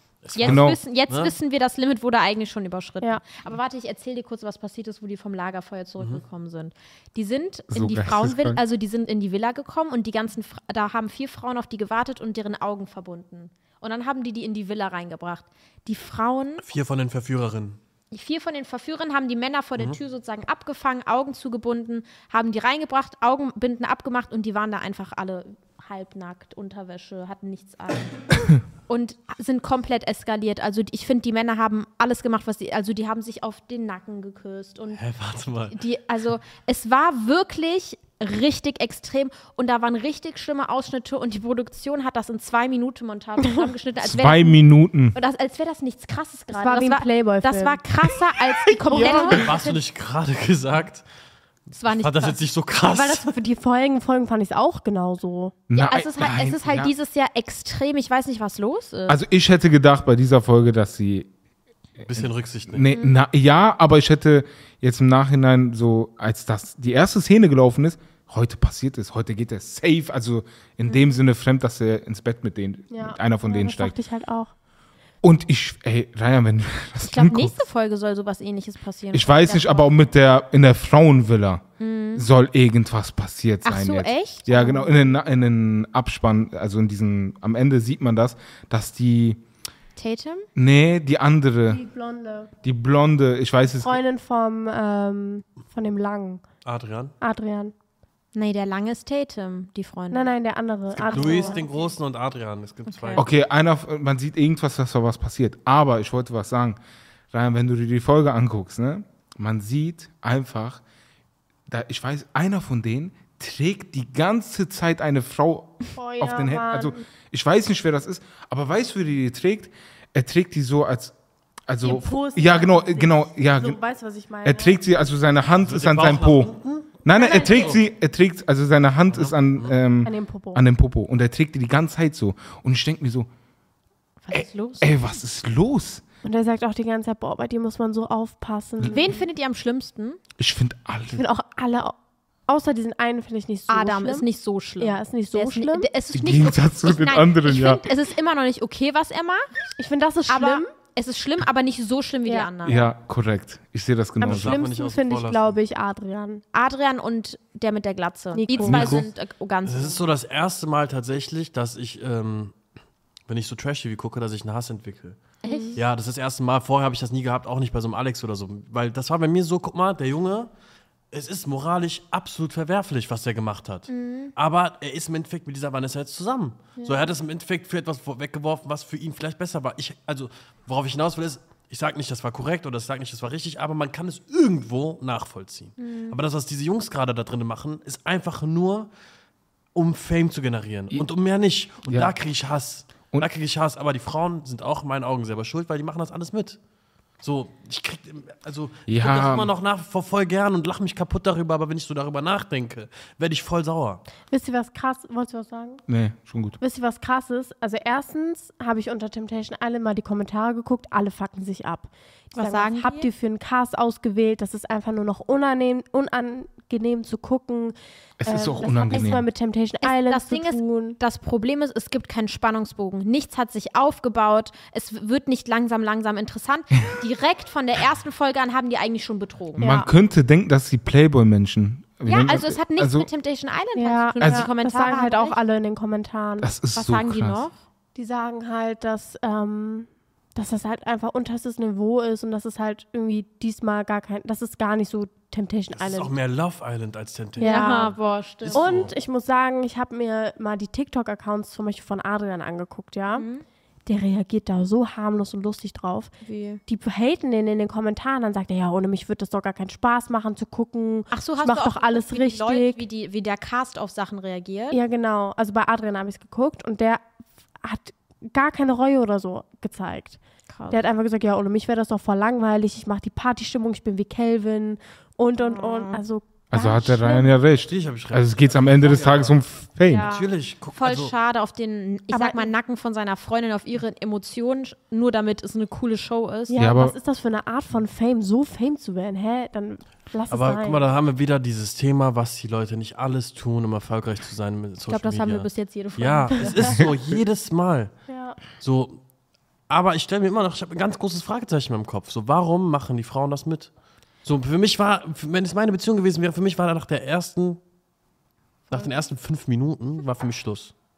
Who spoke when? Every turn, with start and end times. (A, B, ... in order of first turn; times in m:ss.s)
0:00.2-0:01.3 A
0:00.3-0:16.6 B
0:00.4-0:00.8 C
0:07.7-0:08.6 C
0:16.6-0:17.8 A
0:18.1-0:35.0 B
0:34.9-0:35.8 A
0:35.7-0:44.6 B
0:44.0-0:45.2 C
0:45.1-0:49.8 B
0:46.5-0:47.8 D
0:48.9-0:49.4 D
0:49.0-0:51.0 A
0:51.7-0:52.4 B
0:51.9-0:53.3 A
0:52.8-0:55.5 D
0:55.7-0:56.9 C
0:55.7-0:59.2 B
0:59.1-1:01.3 C
1:02.0-1:13.9 C
1:02.1-1:02.9 A
1:10.9-1:11.1 B
1:12.9-1:14.5 D
1:15.2-1:17.6 C
1:17.0-1:20.0 B
1:19.1-1:21.6 C
1:21.8-1:22.2 B
1:22.1-1:29.4 C
1:23.6-1:24.7 B
1:24.5-1:24.9 D
1:30.0-1:30.5 B
1:30.6-1:31.8 C
1:31.7-1:32.5 D
1:32.6-1:34.0 C
1:33.7-1:36.4 D
1:36.6-1:37.1 A
1:37.2-1:37.7 D
1:38.3-1:40.3 B
1:40.1-1:41.6 D
1:41.0-1:43.2 A
1:41.0-1:41.8 B
1:42.9-1:43.2 B
1:43.2-1:46.8 C
1:47.3-1:50.8 C
1:51.7-2:01.1 C
1:56.0-1:57.0 D
2:01.7-2:03.8 C
2:01.8-2:04.8 D
2:04.4-2:13.3 C
2:05.6-2:07.8 A
2:07.1-2:07.8 D
2:09.1-2:09.8 A
2:10.0-2:10.6 D
2:14.2-2:14.9 B
2:14.3-2:16.0 C
2:16.2-2:19.3 D
2:18.9-2:20.2 B
2:20.4-2:21.2 C
2:21.1-2:24.2 D
2:23.7-2:29.5 B
2:24.8-2:25.9 D
2:26.1-2:27.8 C
2:29.8-2:30.7 D
2:30.3-2:32.8 B
2:32.3-2:32.8 D
2:32.6-2:34.6 C
2:34.2-2:36.4 D
2:34.2-2:35.6 A
2:36.5-2:40.0 B
2:38.3-2:39.0 D
2:38.6-2:39.0 C
2:39.6-2:42.6 A
2:43.3-2:45.2 A
2:45.4-2:45.8 D
2:45.4-2:45.8 B
2:45.8-2:50.5 A
2:51.1-3:08.9 A
2:53.9-2:54.3 B
3:05.8-3:06.2 B
3:09.7-3:16.6 A
3:11.9-3:12.1 C
3:17.2-3:24.0 A
3:18.9-3:19.5 C
3:24.3-3:25.8 D
3:25.9-3:26.6 C
3:26.6-3:37.8 D
3:32.3-3:33.1 B
3:38.2-3:39.3 C
3:38.3-3:41.0 D
3:39.8-3:49.7 B
3:49.6-3:49.9 D
3:49.6-3:53.1 C
3:52.0-3:55.4 B
3:53.8-3:56.5 D
3:54.2-3:54.5 C
3:56.4-3:57.4 C
3:56.7-3:57.6 B
3:57.9-4:06.1 D
4:05.7-4:08.9 A
4:07.4-4:07.9 D
4:07.4-4:08.8 B
4:08.5-4:13.2 D
4:13.1-4:13.4 B
4:13.8-4:16.1 D
4:16.2-4:16.6 B
4:16.7-4:22.8 D
4:21.1-4:24.8 B
4:24.7-4:27.0 D
4:27.6-4:30.2 D
4:30.5-4:30.8 B
4:30.7-4:37.3 D
4:35.4-4:36.0 B
4:36.5-4:40.0 C
4:37.6-4:39.4 A
4:39.9-4:46.6 B
4:39.9-4:41.1 A
4:42.1-4:42.5 D
4:46.5-4:50.8 D
4:46.5-4:46.9 C
4:50.3-4:57.9 A
4:54.9-4:56.9 B
4:58.1-4:58.4 D
4:58.6-4:59.0 A
4:59.7-5:03.7 A
5:04.2-5:07.6 A
5:08.7-5:10.7 A